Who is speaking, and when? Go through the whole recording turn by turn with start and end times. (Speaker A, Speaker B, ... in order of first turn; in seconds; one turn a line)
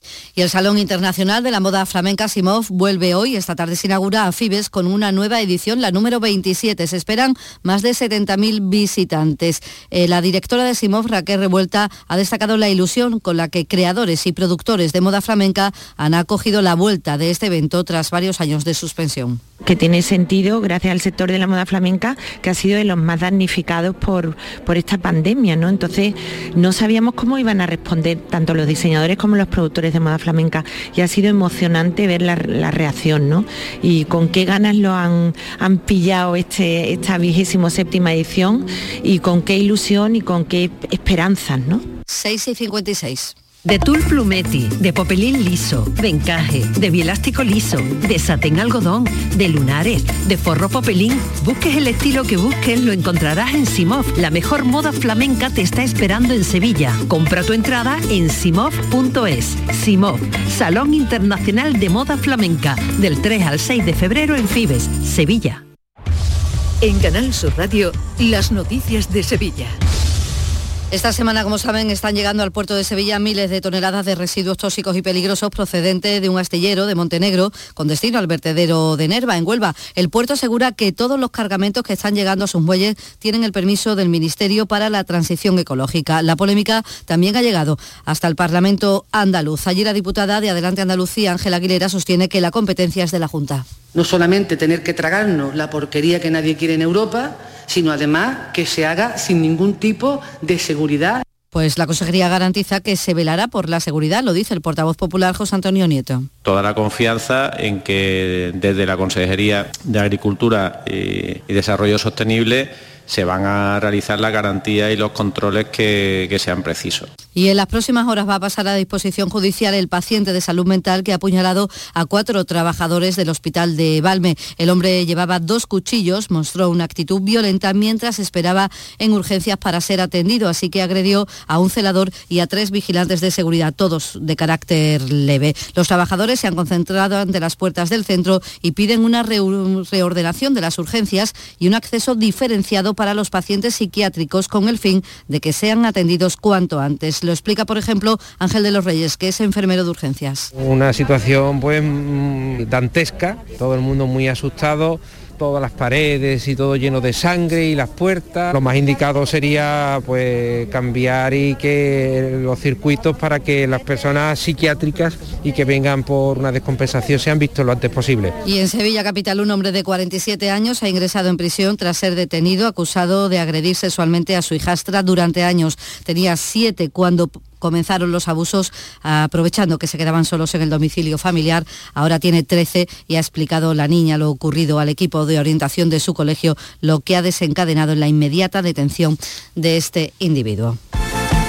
Speaker A: 0.4-19.4
Speaker B: 19.6-41.8
Speaker A: 42.1-43.3
Speaker C: 43.6-65.6
Speaker C: 66.8-69.8
Speaker A: 70.9-93.7
Speaker D: 93.9-101.2
Speaker A: 101.5-106.3
Speaker E: 107.5-107.8
Speaker E: 114.6-115.6
Speaker E: 116.2-117.0
Speaker A: 117.3-150.5
Speaker F: 150.6-168.3
Speaker A: 168.5-190.8